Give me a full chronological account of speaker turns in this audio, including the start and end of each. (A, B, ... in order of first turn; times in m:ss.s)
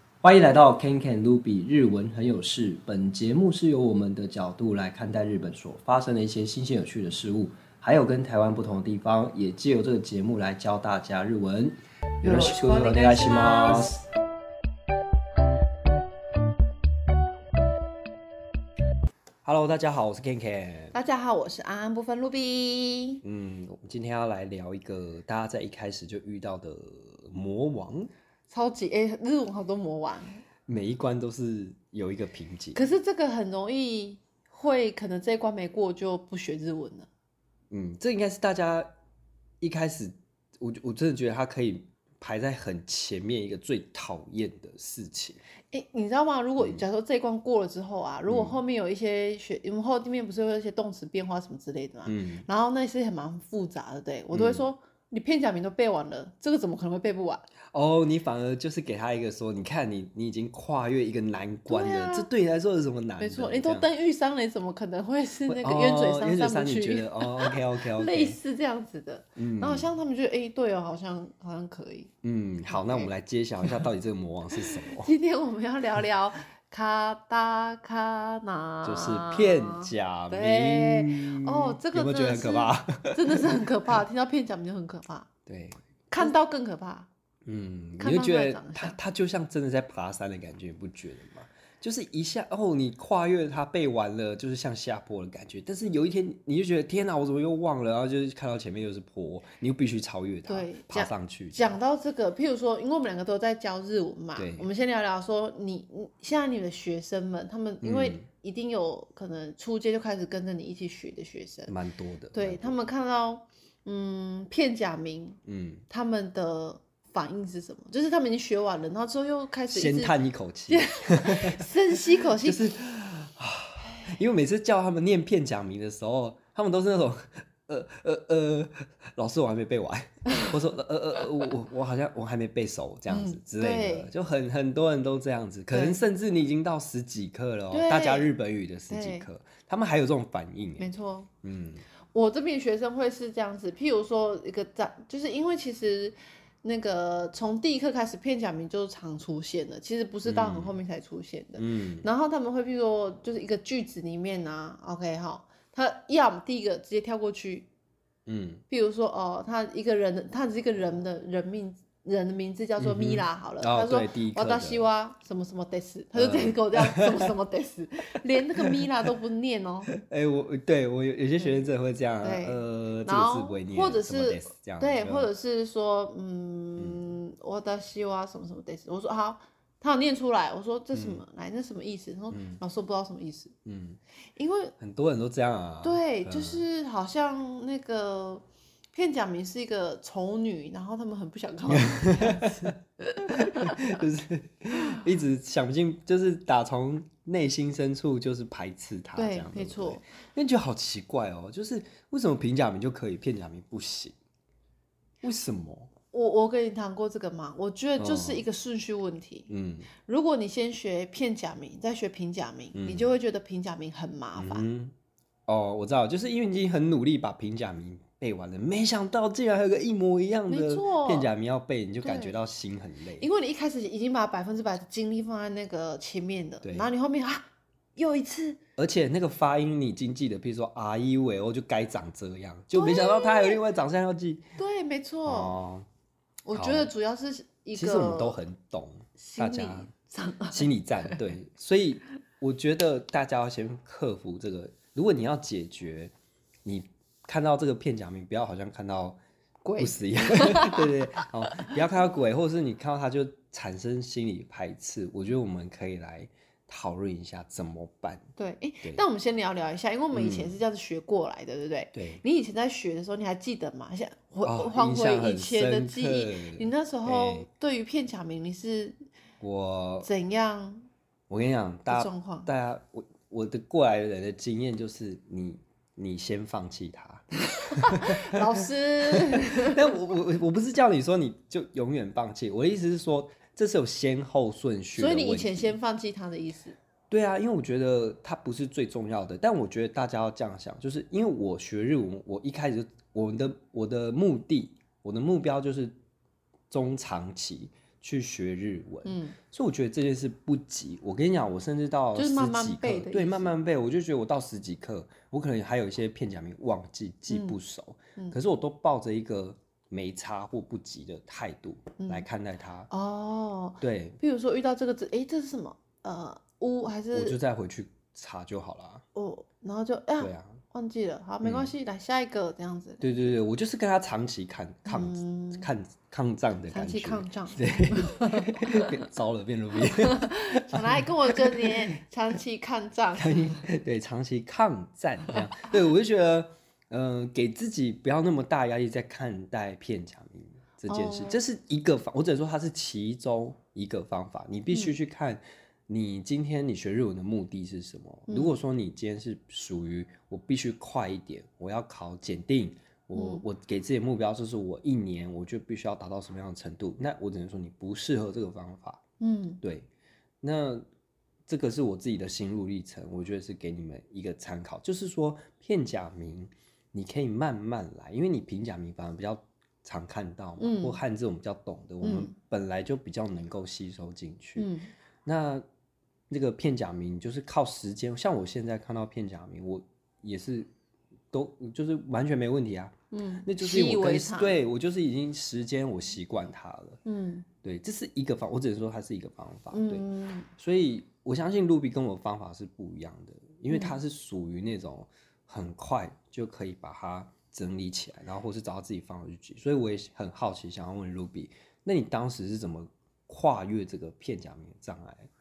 0:00.2-0:14.0 A
0:12.2-0:14.0 B
0:19.4-0:21.0 A
0:20.9-0:23.2 B
0:23.2-0:28.1 A
0:28.5-0:30.4 B
0:30.7-0:32.8 A
0:32.8-0:37.1 B
0:37.7-0:38.9 A
0:39.6-0:45.4 A
0:45.7-0:57.5 B
0:48.3-0:48.6 A
0:52.1-0:52.5 A
0:54.3-0:54.6 A
0:57.7-1:03.9 A
1:01.7-1:02.3 B
1:03.2-1:12.1 B
1:05.5-1:08.4 A
1:09.4-1:09.9 A
1:12.2-1:15.1 A
1:12.7-1:13.1 B
1:14.5-1:25.3 B
1:18.8-1:23.7 A
1:25.5-1:26.3 A
1:26.1-1:27.1 B
1:27.5-1:41.8 A
1:28.0-1:29.0 B
1:40.5-1:51.7 B
1:44.4-1:44.7 A
1:47.8-1:48.2 A
1:51.7-1:52.8 A
1:52.3-2:00.2 B
1:55.5-1:55.8 A
1:59.7-2:20.9 A
2:00.7-2:02.7 B
2:03.9-2:04.1 B
2:10.3-2:10.5 B
2:13.1-2:14.1 B
2:15.7-2:16.0 B
2:17.7-2:18.3 B
2:18.9-2:19.3 B
2:20.8-2:21.3 B
2:21.4-2:21.8 A
2:22.1-2:37.7 B
2:30.2-2:30.8 A
2:31.6-2:32.1 A
2:38.3-2:38.6 A
2:38.7-2:49.9 B
2:42.8-2:44.9 A
2:46.2-2:47.3 A
2:48.6-2:48.8 A
2:49.9-2:55.3 A
2:52.2-3:03.5 B
3:00.9-3:01.2 A
3:02.3-3:02.6 A
3:03.6-3:04.0 A
3:04.4-3:04.7 B
3:04.8-3:06.6 A
3:05.8-3:14.0 B
3:11.7-3:12.8 A
3:13.3-3:24.2 A
3:19.2-3:20.0 B
3:25.2-3:25.9 A
3:26.1-3:34.7 B
3:28.0-3:28.5 A
3:29.5-3:29.9 A
3:32.8-3:33.2 A
3:34.4-3:34.9 A
3:35.5-3:43.3 A
3:40.5-3:41.3 B
3:42.0-3:42.4 B
3:43.2-3:47.4 B
3:46.6-3:46.9 A
3:48.0-3:48.6 B
3:48.8-3:54.5 A
3:52.7-3:53.6 B
3:54.6-3:55.6 B
3:55.3-3:55.9 A
3:56.4-3:58.4 B
3:56.6-3:56.9 A
3:57.8-3:59.9 A
3:59.2-4:01.2 B
4:00.5-4:06.1 A
4:06.6-4:09.2 A
4:09.6-4:11.7 B
4:09.8-4:18.2 A
4:18.4-4:29.0 B
4:20.1-4:20.6 A
4:21.9-4:22.2 A
4:24.4-4:27.5 A
4:29.4-4:30.1 A
4:30.0-4:30.9 B
4:31.3-4:45.8 A
4:31.9-4:32.5 B
4:37.6-4:40.0 B
4:45.0-4:46.8 B
4:47.1-4:56.0 A
4:56.7-5:12.9 A
4:59.0-4:59.4 B
5:02.2-5:03.5 B
5:07.3-5:07.6 B
5:12.0-5:12.3 B
5:12.9-5:17.4 B
5:13.8-5:14.2 A
5:17.1-5:19.0 A
5:19.2-5:23.1 B
5:20.2-5:20.6 A
5:21.4-5:21.7 A
5:23.0-5:32.0 A
5:24.9-5:25.7 B
5:26.7-5:29.0 B
5:29.8-5:33.6 B
5:33.2-5:59.0 A
5:40.9-5:41.4 B
5:44.7-5:45.0 B
5:48.3-5:48.6 B
5:53.2-5:53.4 B
5:59.2-5:59.6 B
5:59.6-5:59.9 A
6:00.4-6:00.8 A
6:01.5-6:14.7 A
6:10.6-6:11.0 B
6:12.0-6:12.4 B
6:14.6-6:14.9 B
6:15.2-6:15.6 A
6:16.3-6:20.7 A
6:21.3-6:27.0 A
6:23.1-6:24.6 B
6:27.0-6:27.5 B
6:27.6-6:30.0 A
6:29.7-6:30.5 B
6:30.6-6:45.3 A
6:33.7-6:34.0 B